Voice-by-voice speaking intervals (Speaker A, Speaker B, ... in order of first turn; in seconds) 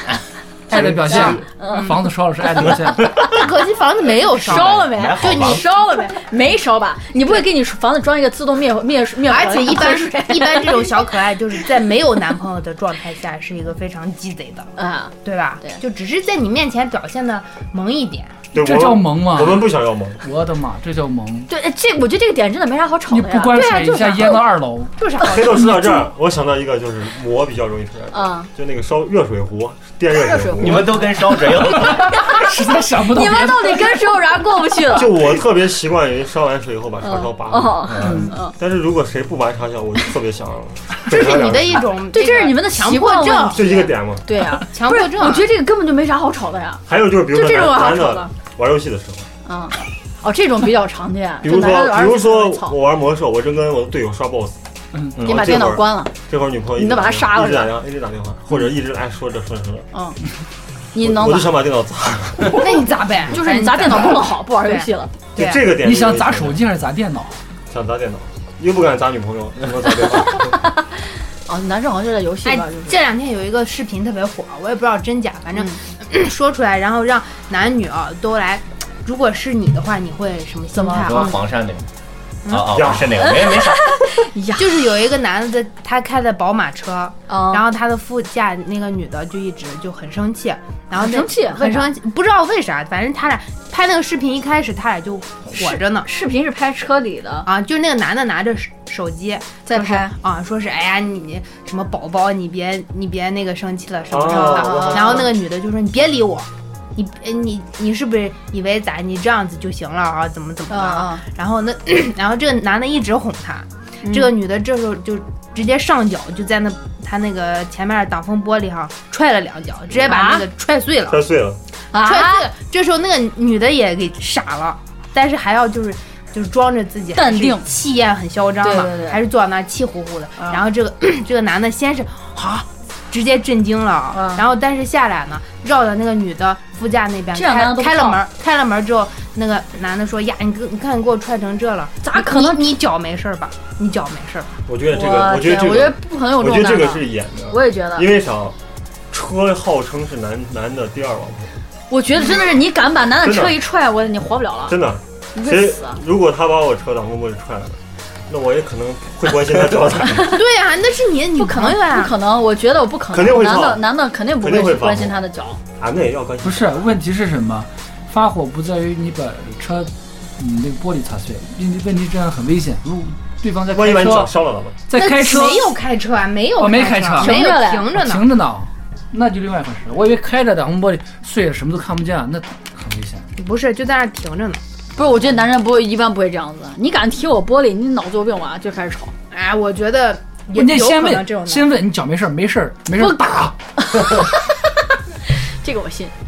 Speaker A: 0.7-3.2, 18.5-21.5, 23.1-24.9, 30.4-34.0, 38.0-38.3, 65.8-67.4, 166.4-174.3, 174.9-175.8, 176.6-183.2, 190.5-193.6
Speaker B: 0.7-1.4, 18.5-20.2, 25.2-31.0, 34.9-38.0, 38.5-41.9, 43.5-44.3, 46.9-49.3, 51.4-54.6, 55.1-59.9, 61.0-62.6, 65.3-66.6, 67.7-70.6, 82.7-83.2, 104.1-105.3, 121.1-121.6, 144.7-148.6, 149.1-151.5, 153.2-153.6, 154.7-160.4, 163.1-163.8, 164.4-165.1, 165.8-166.7, 173.7-174.8
Speaker C: 1.1-2.0, 4.4-11.0, 14.8-15.8, 21.5-23.6, 28.1-28.5, 30.3-30.6, 32.1-32.4, 33.0-35.2, 37.0-38.5, 42.1-43.6, 44.2-48.3, 49.4-52.8, 55.2-56.1, 56.8-57.7, 60.9-61.6, 63.3-65.1, 71.5-73.0, 80.7-81.4, 83.2-84.9, 87.3-87.7, 90.9-91.9, 95.5-97.5, 99.7-100.1, 104.3-105.3, 110.7-111.2, 114.0-114.3, 119.9-120.5, 121.9-122.5, 127.1-127.7, 128.6-129.2, 134.1-134.4, 137.3-138.2, 142.0-142.8, 144.9-148.1, 151.9-154.8, 155.3-156.0, 161.4-165.6, 177.2-177.9, 184.9-189.1, 193.0-194.7, 195.4-196.1
Speaker D: 3.2-6.0, 9.2-14.7, 15.2-18.4, 23.5-24.4, 25.0-26.0, 41.1-43.9, 44.6-45.5, 62.5-65.7, 72.4-81.3, 82.5-82.9, 84.5-96.1, 97.4-121.2, 121.9-144.6, 160.2-162.1, 174.9-178.3, 183.4-184.6, 189.3-191.7
Speaker E: 4.5-5.6, 30.6-32.2, 37.9-38.2, 80.9-81.8, 82.5-83.9